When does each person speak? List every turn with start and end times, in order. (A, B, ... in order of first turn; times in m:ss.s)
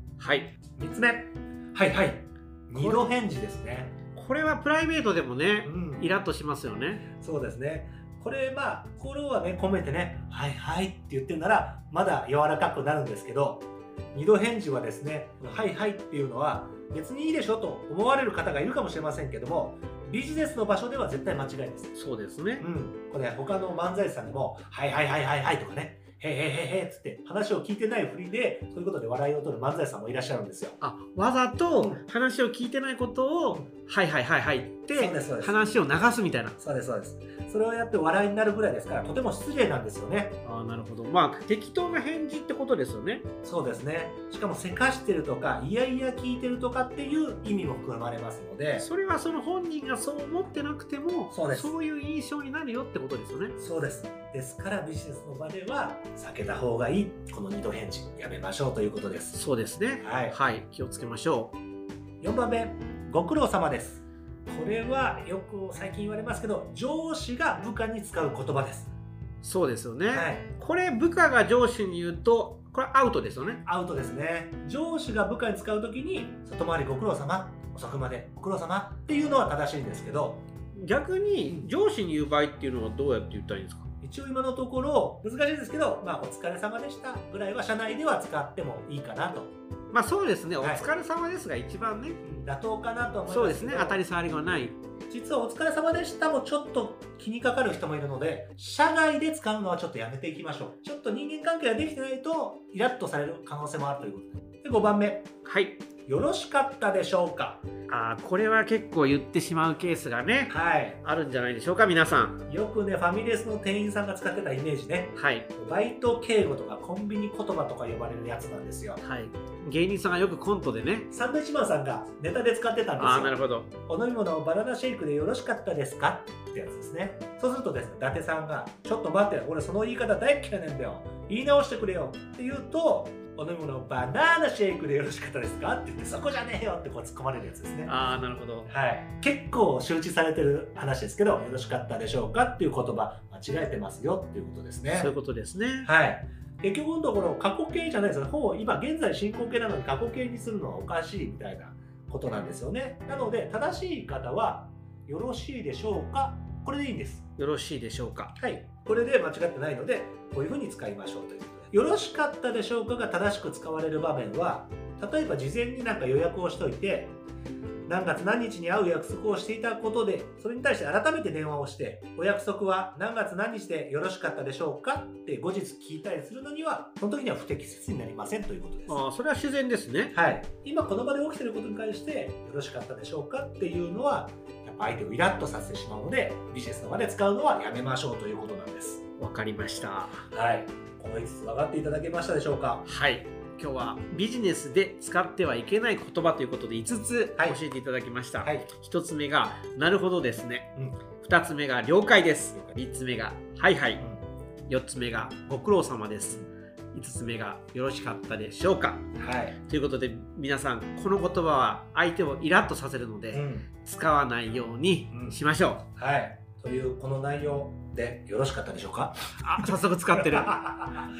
0:00.2-0:00.6 A
0:00.8-0:04.0 B
0:02.7-0:03.1 A
0:04.1-0:07.1 A
0:05.6-0:06.1 B
0:07.1-0:22.0 B
0:22.0-0:22.7 A
0:22.6-0:30.8 B
0:30.8-0:36.6 A
0:34.9-0:35.6 B
0:36.6-0:40.4 B
0:40.4-0:43.2 A
0:43.4-0:48.9 B
0:48.8-0:53.6 A
0:51.3-0:51.7 B
0:53.6-0:59.4 B
0:59.3-1:01.6 A
1:00.0-1:00.4 B
1:02.2-1:08.9 B
1:09.4-1:13.6 A
1:10.1-1:10.5 B
1:13.6-1:20.4 B
1:20.8-1:23.9 A
1:24.0-1:29.5 B
1:29.9-1:32.2 A
1:30.6-1:30.9 B
1:32.2-1:34.0 B
1:33.3-1:34.8 A
1:35.1-1:45.3 B
1:45.4-1:45.8 A
1:46.1-1:47.6 B
1:47.9-1:52.4 A
1:50.5-1:51.0 B
1:52.5-1:59.0 B
1:55.2-1:55.5 A
1:59.0-2:01.1 A
2:01.1-2:18.0 B
2:03.0-2:03.7 A
2:17.9-2:18.7 A
2:18.7-2:25.1 B
2:24.9-2:25.9 A
2:25.8-2:37.2 B
2:37.4-2:38.4 A
2:38.4-2:47.1 B
2:47.9-2:59.0 B
2:58.9-3:00.1 A
3:00.1-3:09.0 B
3:09.2-3:10.2 A
3:10.3-3:12.8 B
3:12.9-3:24.0 A
3:18.4-3:18.7 B
3:20.8-3:21.0 B
3:24.0-3:24.2 B
3:24.7-3:26.4 A
3:26.9-3:29.1 A
3:29.2-3:29.6 B
3:29.6-3:35.8 A
3:33.3-3:33.7 B
3:35.1-3:35.4 B
3:36.0-3:41.0 B
3:39.4-3:40.8 A